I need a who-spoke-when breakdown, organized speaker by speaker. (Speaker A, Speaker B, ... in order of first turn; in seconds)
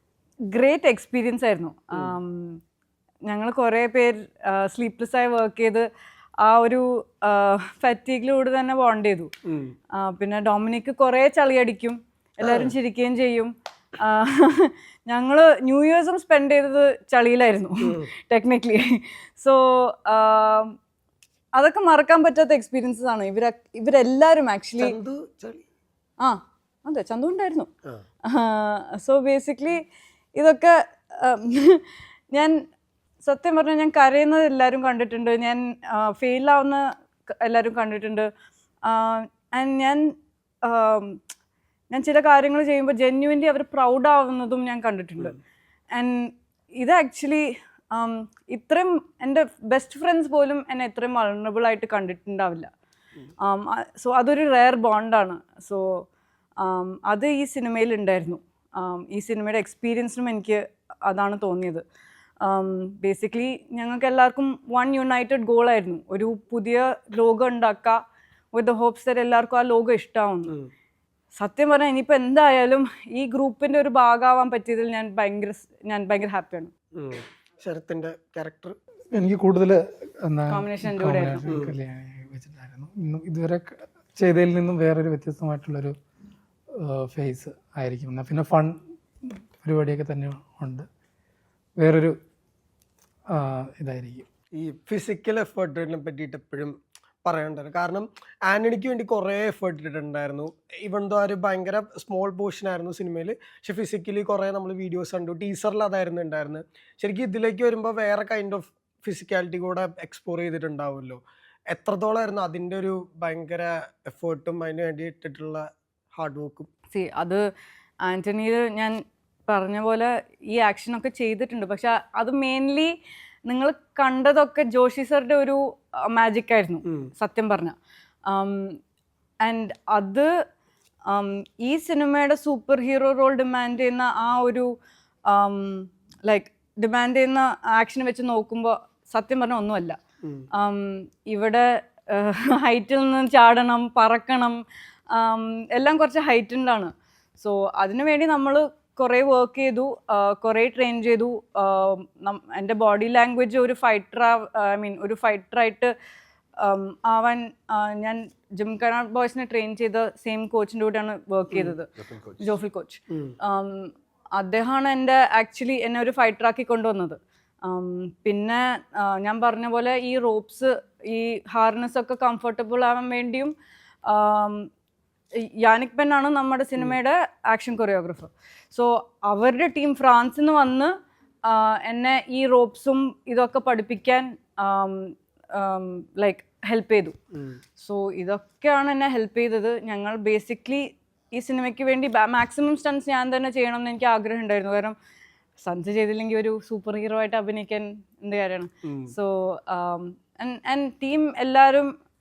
Speaker A: 0.5-2.6, 3.3-5.9, 6.4-9.3, 10.0-13.5, 14.0-20.8, 21.6-25.0, 26.2-27.7, 28.3-29.8, 30.4-32.6, 33.2-38.3, 38.9-41.2, 41.9-45.4, 46.0-52.7, 53.4-56.0, 56.6-61.8, 62.4-68.0, 68.5-70.5, 71.4-76.7, 80.5-81.6, 116.9-117.4, 118.0-122.9, 123.5-127.8, 128.3-128.8, 129.4-130.3, 131.1-134.7, 135.3-140.0, 140.5-144.6, 145.1-155.9, 156.6-173.5, 174.1-174.7, 175.4-180.9, 181.5-187.2, 187.8-195.0, 195.6-201.9
Speaker B: 9.5-9.7, 12.4-12.7, 17.8-18.1, 24.8-25.6, 77.0-78.8, 81.5-81.7, 94.6-115.7, 116.2-116.7, 163.1-163.3, 198.8-199.1
Speaker C: 79.1-86.0, 86.8-88.8, 89.3-90.9, 91.8-92.2, 93.3-94.2